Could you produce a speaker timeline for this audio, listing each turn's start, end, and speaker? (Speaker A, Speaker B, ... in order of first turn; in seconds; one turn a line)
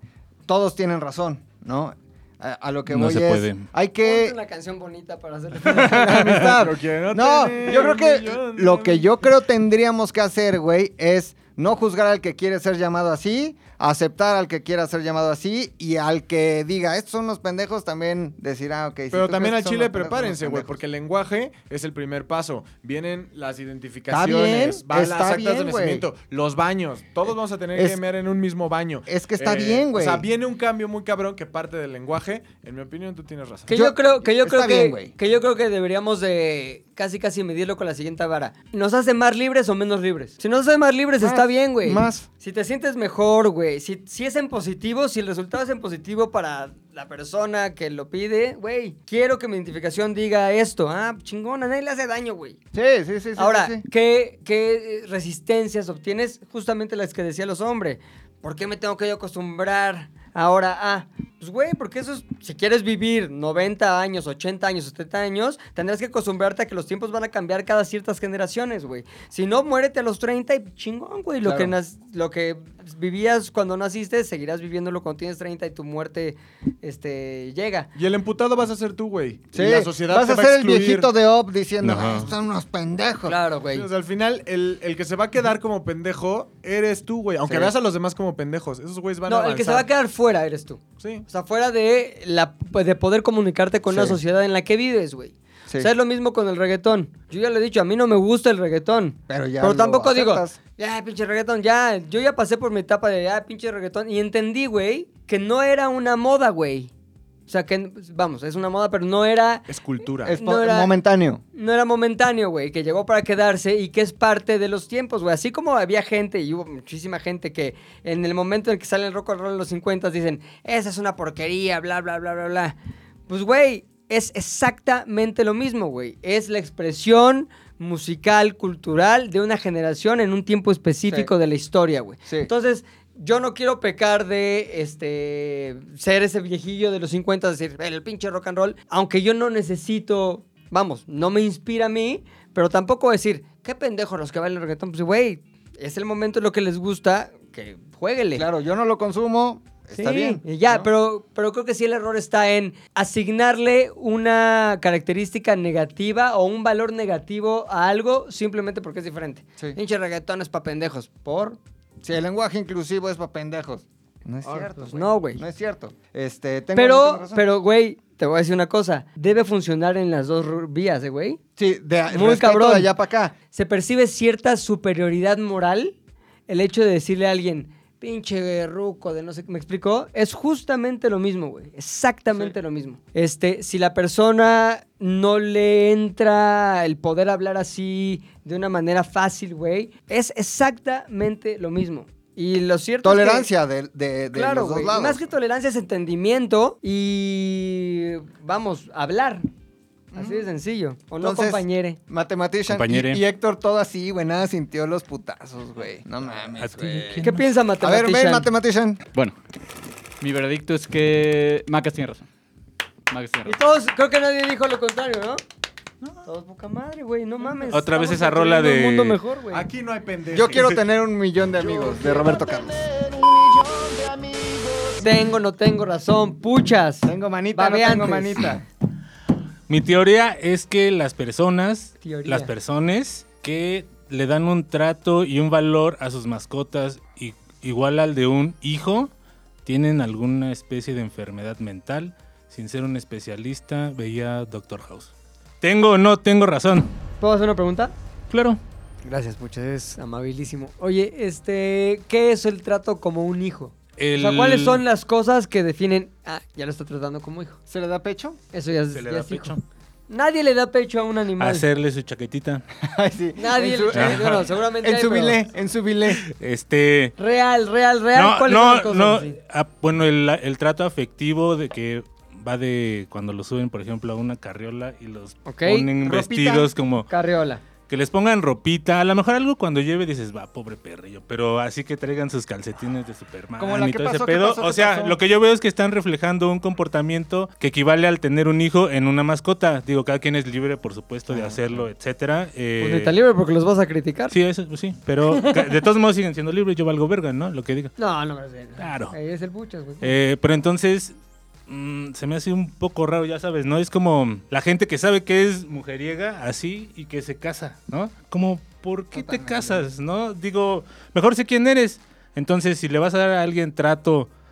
Speaker A: 0.5-4.4
Speaker B: 2.9-3.6
Speaker C: 4.0-6.4
Speaker A: 5.7-20.8
Speaker D: 5.8-9.1
Speaker D: 19.1-33.7
Speaker A: 24.1-26.1
Speaker A: 27.8-28.0
Speaker A: 29.1-30.3
Speaker C: 33.7-52.6
Speaker A: 33.7-35.1
Speaker A: 41.2-42.3
Speaker A: 52.7-53.9
Speaker C: 53.4-77.9
Speaker A: 71.4-71.7
Speaker D: 78.0-81.1
Speaker A: 79.5-83.4
Speaker B: 81.8-82.3
Speaker C: 83.3-83.9
Speaker D: 83.7-89.9
Speaker A: 87.5-87.7
Speaker C: 89.3-106.9
Speaker D: 91.0-91.3
Speaker A: 93.9-94.2
Speaker A: 99.3-100.6
Speaker C: 107.5-109.7
Speaker D: 109.7-110.3
Speaker A: 110.2-111.4
Speaker C: 110.3-110.9
Speaker C: 111.5-122.8
Speaker C: 123.3-148.5
Speaker A: 148.3-150.9
Speaker C: 150.0-161.6
Speaker A: 162.0-167.4
Speaker C: 164.4-165.4
Speaker C: 166.8-171.4
Speaker A: 171.6-173.3
Speaker C: 172.1-172.9
Speaker C: 173.5-176.0
Speaker C: 176.5-193.5
Speaker A: 193.0-195.2
Speaker C: 194.3-199.5
Speaker A: 200.1-200.5
Speaker C: 200.2-202.0
Speaker A: 201.2-209.0
Speaker B: 202.7-203.2
Speaker B: 206.5-207.5
Speaker C: 207.2-208.5
Speaker E: 210.2-212.2
Speaker E: 213.1-213.6
Speaker C: 213.4-215.4
Speaker C: 216.2-219.7
Speaker B: 217.7-219.2
Speaker D: 219.5-220.8
Speaker A: 220.3-222.9
Speaker D: 221.6-225.0
Speaker C: 225.0-228.5
Speaker A: 227.0-228.7
Speaker B: 229.7-239.1
Speaker C: 232.0-232.5
Speaker B: 239.7-246.9
Speaker C: 247.2-247.9
Speaker B: 248.3-248.6
Speaker C: 249.1-257.6
Speaker B: 254.0-254.8
Speaker A: 257.7-258.4
Speaker C: 258.5-259.6
Speaker B: 258.9-259.6
Speaker C: 260.1-261.7
Speaker B: 261.4-262.6
Speaker A: 262.8-266.2
Speaker C: 263.4-265.4
Speaker B: 263.9-264.4
Speaker B: 266.2-267.1
Speaker C: 267.2-269.4
Speaker B: 268.1-277.1
Speaker C: 275.5-275.9
Speaker A: 276.0-276.7
Speaker C: 277.1-277.6
Speaker B: 277.9-293.1
Speaker A: 283.6-285.2
Speaker C: 292.8-294.4
Speaker B: 294.3-297.9
Speaker C: 295.3-295.6
Speaker C: 298.0-300.2
Speaker B: 298.8-299.1
Speaker B: 300.0-301.1
Speaker B: 301.7-314.3
Speaker A: 309.1-309.9